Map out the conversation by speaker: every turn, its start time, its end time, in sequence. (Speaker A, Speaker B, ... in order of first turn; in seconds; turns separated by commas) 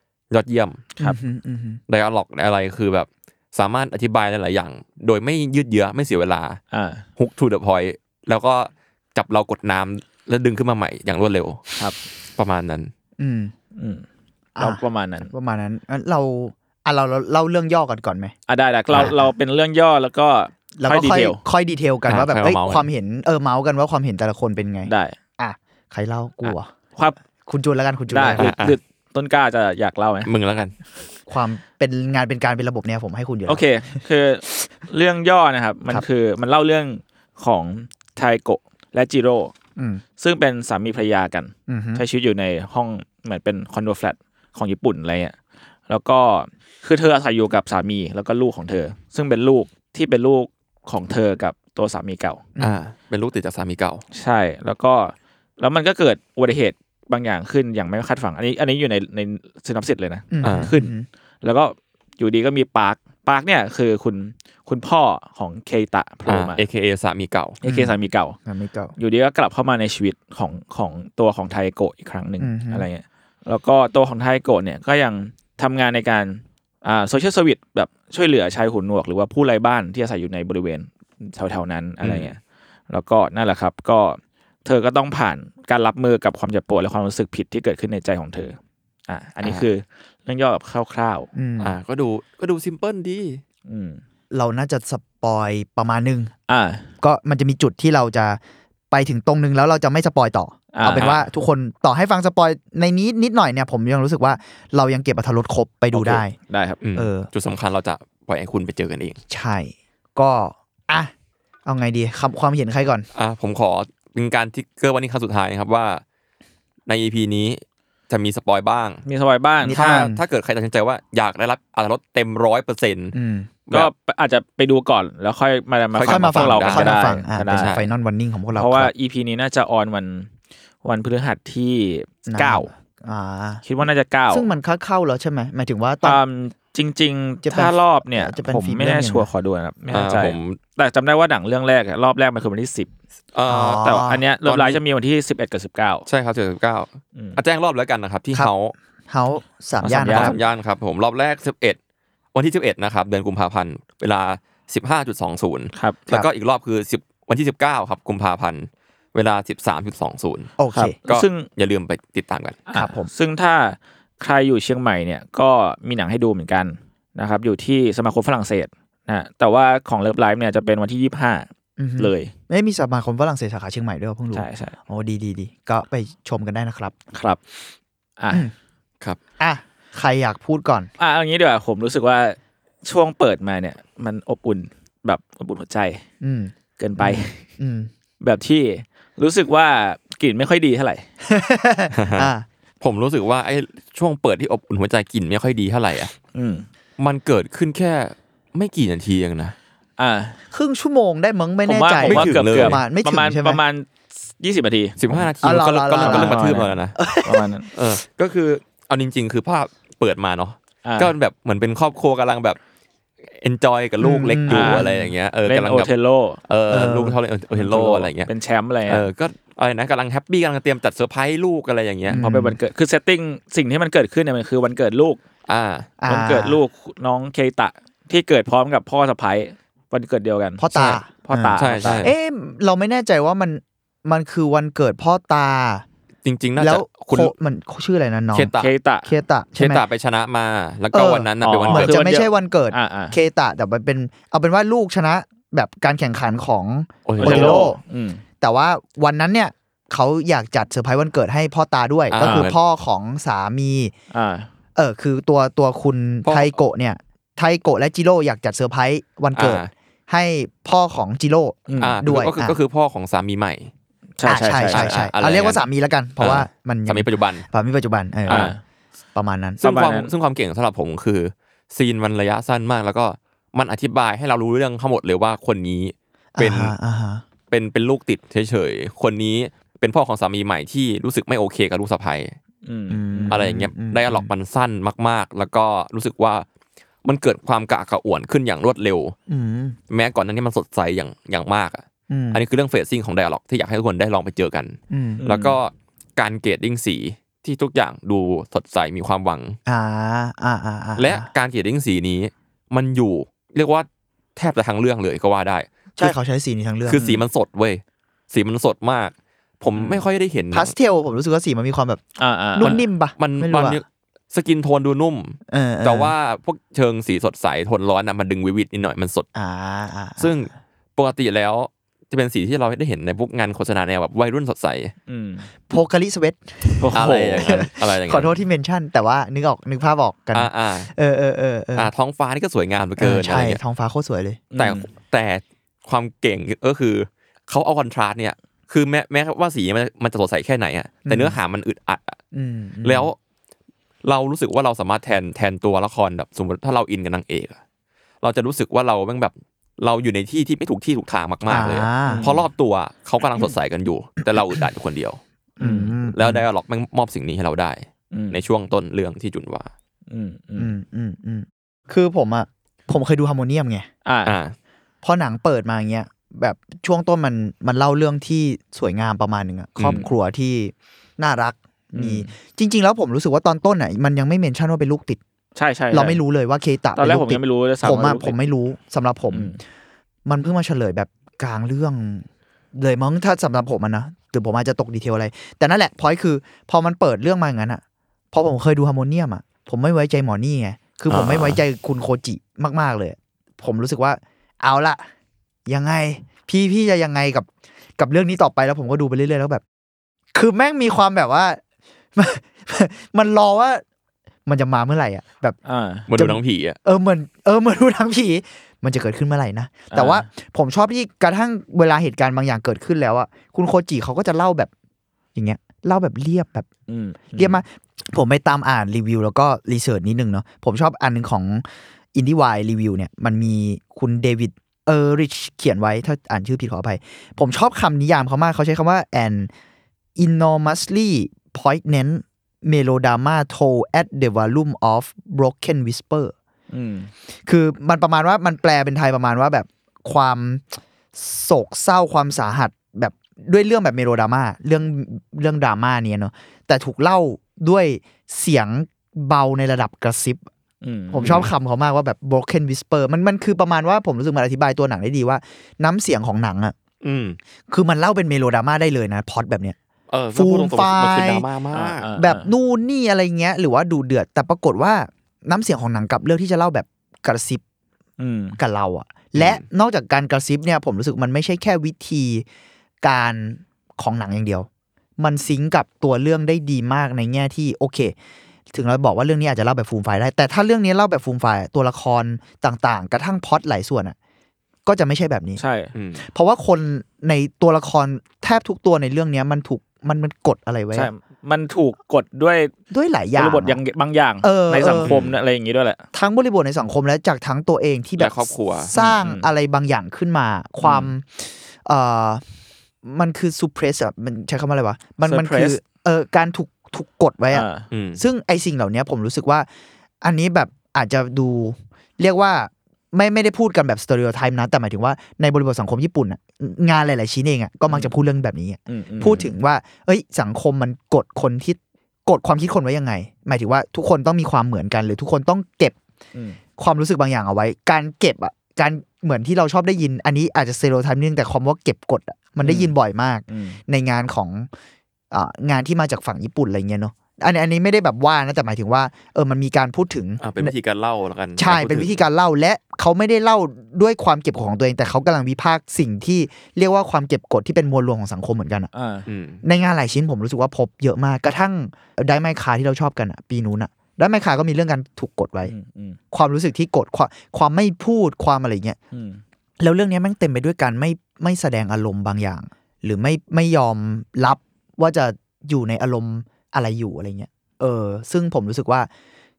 Speaker A: 0.3-0.9, Speaker B: 1.0-1.8, Speaker A: 1.9-6.6, Speaker C: 6.7-7.0, Speaker A: 7.2-11.7, Speaker A: 12.4-12.9, Speaker B: 13.2-13.5, Speaker C: 13.8-14.1, Speaker B: 14.6-18.3, Speaker C: 14.6-15.3, Speaker C: 18.5-21.4, Speaker B: 18.9-19.3, Speaker B: 20.8-26.7, Speaker A: 22.1-22.9, Speaker C: 24.9-25.2, Speaker B: 27.4-28.5, Speaker C: 28.1-30.3, Speaker A: 28.4-28.8, Speaker A: 30.3-30.7, Speaker B: 31.3-33.6, Speaker C: 33.5-39.5, Speaker B: 39.8-40.0, Speaker C: 40.2-45.4, Speaker B: 41.7-42.0, Speaker C: 45.9-52.5, Speaker A: 52.6-54.0, Speaker C: 54.1-66.6, Speaker B: 60.3-61.1, Speaker A: 60.4-60.7, Speaker A: 66.3-67.6, Speaker C: 67.6-68.4, Speaker B: 67.6-68.9, Speaker C: 69.0-82.4, Speaker B: 72.4-72.9, Speaker A: 82.0-82.3, Speaker C: 82.9-91.3, Speaker A: 89.4-89.7, Speaker B: 91.3-91.8, Speaker A: 91.6-93.4, Speaker C: 93.7-94.0, Speaker B: 94.3-96.3, Speaker C: 96.5-96.9, Speaker B: 97.0-98.4, Speaker B: 98.9-106.4, Speaker C: 100.7-101.2, Speaker A: 101.0-101.2, Speaker C: 105.9-106.8, Speaker A: 106.8-109.2, Speaker B: 107.0-107.3, Speaker B: 109.3-111.1, Speaker B: 111.7-113.1, Speaker A: 113.2-116.0, Speaker A: 116.9-119.0, Speaker C: 119.1-120.1, Speaker B: 119.6-120.2, Speaker A: 119.7-123.2, Speaker B: 123.1-123.5, Speaker C: 123.7-127.8, Speaker A: 125.9-127.9, Speaker B: 126.1-128.9, Speaker C: 128.5-130.3, Speaker C: 130.8-132.7, Speaker B: 132.3-133.6, Speaker C: 133.6-134.5, Speaker B: 134.3-136.2, Speaker C: 136.0-142.9, Speaker B: 137.4-139.3, Speaker A: 139.9-140.6, Speaker A: 143.3-143.9, Speaker B: 143.5-144.2, Speaker C: 143.8-146.1, Speaker A: 144.4-144.8, Speaker A: 146.1-148.8, Speaker B: 149.1-150.4, Speaker C: 149.8-150.4, Speaker A: 150.0-151.8, Speaker A: 152.3-160.6, Speaker B: 160.6-160.9, Speaker C: 160.7-161.5, Speaker A: 161.1-162.6, Speaker C: 162.7-172.3, Speaker B: 162.7-163.1, Speaker B: 171.8-176.9, Speaker C: 174.3-174.8, Speaker C: 177.1-177.4, Speaker C: 178.2-178.5, Speaker B: 179.4-180.9, Speaker C: 181.0-186.0, Speaker B: 186.2-187.9, Speaker C: 186.8-187.4, Speaker C: 188.2-191.1, Speaker B: 191.3-192.5, Speaker A: 191.9-192.3, Speaker A: 192.8-196.1, Speaker C: 196.3-196.7, Speaker A: 197.0-199.6, Speaker C: 200.0-200.4, Speaker B: 200.5-203.6, Speaker C: 201.7-205.0, Speaker A: 202.0-202.8, Speaker A: 205.0-207.0, Speaker B: 205.1-207.5, Speaker C: 206.0-207.7, Speaker A: 207.7-212.6, Speaker C: 210.8-211.1, Speaker A: 213.3-215.9, Speaker B: 214.0-215.0, Speaker C: 214.5-216.4, Speaker A: 216.5-218.3, Speaker B: 216.7-217.2, Speaker C: 217.5-219.1, Speaker A: 218.9-222.2, Speaker B: 222.1-222.6, Speaker C: 222.1-225.2, Speaker A: 225.5-225.9, Speaker B: 226.0-226.6, Speaker C: 226.1-232.1, Speaker B: 230.6-235.9, Speaker A: 231.6-232.1, Speaker A: 236.2-237.3, Speaker B: 236.6-238.5, Speaker A: 238.3-238.7, Speaker C: 238.6-239.1, Speaker B: 239.1-239.8, Speaker A: 239.6-241.9, Speaker B: 240.9-247.8, Speaker C: 241.4-243.2, Speaker A: 247.1-247.7, Speaker C: 247.2-248.2, Speaker B: 248.4-253.9, Speaker A: 252.1-252.6, Speaker C: 254.1-254.5, Speaker B: 254.8-262.6, Speaker A: 256.2-256.6, Speaker A: 259.4-259.7, Speaker C: 261.7-262.0, Speaker A: 261.8-263.7, Speaker C: 264.2-264.9, Speaker B: 264.2-268.5, Speaker A: 264.7-265.6, Speaker A: 266.2-267.5, Speaker C: 268.3-268.6, Speaker B: 269.1-269.6, Speaker C: 269.6-270.1, Speaker A: 269.6-276.7, Speaker B: 276.4-277.2, Speaker A: 277.5-282.4, Speaker C: 282.7-283.4, Speaker B: 282.9-284.3, Speaker A: 283.3-286.4, Speaker A: 287.0-289.1, Speaker B: 289.3-289.8, Speaker A: 289.9-299.6, Speaker B: 292.1-292.4, Speaker B: 294.9-295.2, Speaker C: 295.2-295.6, Speaker B: 299.7-301.3, Speaker A: 301.0-306.1, Speaker B: 306.0-307.2, Speaker A: 306.9-310.7, Speaker B: 310.5-312.0, Speaker C: 312.2-312.8, Speaker B: 312.6-313.8, Speaker A: 312.6-319.3, Speaker B: 315.5-316.1, Speaker B: 319.4-320.4, Speaker A: 320.2-324.9, Speaker C: 325.1-325.5, Speaker B: 325.7-331.9, Speaker C: 326.8-327.6, Speaker A: 326.9-328.4, Speaker A: 330.3-330.9, Speaker A: 331.8-333.6, Speaker B: 333.0-334.4, Speaker C: 334.5-334.9, Speaker A: 334.6-342.2, Speaker B: 341.1-341.4, Speaker B: 342.3-343.1, Speaker A: 342.8-343.2, Speaker A: 344.0-347.6, Speaker A: 348.2-355.2, Speaker B: 351.5-352.3, Speaker C: 352.1-352.4, Speaker B: 355.6-356.4, Speaker C: 355.6-355.9, Speaker A: 356.1-359.7, Speaker C: 358.1-358.4, Speaker C: 360.1-360.7, Speaker B: 360.6-363.9, Speaker C: 364.1-364.4, Speaker A: 364.3-364.6, Speaker B: 365.0-375.2, Speaker A: 369.8-370.0, Speaker C: 371.9-372.3, Speaker C: 375.6-376.2, Speaker B: 375.9-379.6, Speaker C: 377.0-378.4, Speaker C: 379.3-379.6, Speaker B: 380.3-395.1, Speaker A: 391.1-391.6, Speaker B: 395.7-399.6, Speaker B: 400.3-401.6, Speaker B: 402.1-403.8, Speaker B: 404.5-405.6, Speaker C: 405.6-406.1, Speaker A: 406.1-406.8, Speaker B: 406.1-414.7, Speaker C: 409.9-410.3, Speaker B: 415.4-416.7, Speaker C: 416.9-417.6, Speaker B: 417.4-429.5, Speaker B: 430.2-436.3, Speaker C: 436.7-437.1, Speaker B: 437.5-450.5, Speaker C: 450.8-451.5, Speaker B: 451.1-456.7, Speaker A: 451.2-451.5, Speaker A: 457.0-457.4, Speaker B: 457.7-459.8, Speaker A: 460.1-462.1, Speaker B: 460.3-461.5, Speaker C: 461.7-462.5, Speaker B: 462.2-467.6, Speaker C: 468.2-468.6, Speaker B: 468.6-472.5, Speaker A: 469.4-469.6, Speaker B: 473.0-474.7, Speaker B: 475.2-478.1, Speaker B: 478.7-484.2, Speaker B: 484.9-485.6, Speaker C: 485.6-485.9, Speaker A: 485.9-486.2, Speaker B: 486.2-491.1, Speaker C: 490.9-492.7, Speaker B: 492.9-493.8, Speaker C: 493.4-496.0, Speaker B: 494.4-495.2, Speaker A: 495.0-495.4, Speaker B: 496.1-502.4, Speaker A: 498.2-498.9, Speaker C: 498.9-499.5, Speaker C: 500.8-501.1, Speaker B: 503.0-507.7, Speaker C: 505.2-505.8, Speaker C: 507.5-507.9, Speaker A: 507.9-508.2, Speaker B: 508.2-509.7, Speaker B: 510.2-526.0, Speaker C: 518.9-519.5, Speaker C: 526.3-526.6, Speaker B: 526.8-534.7, Speaker C: 532.6-532.9, Speaker C: 533.5-533.8, Speaker B: 535.3-540.7, Speaker A: 540.4-542.2, Speaker B: 541.6-548.9, Speaker C: 548.9-549.2, Speaker A: 549.3-549.6, Speaker B: 549.6-555.7, Speaker C: 555.6-556.2, Speaker B: 556.3-559.0, Speaker C: 559.1-559.4, Speaker B: 559.8-569.1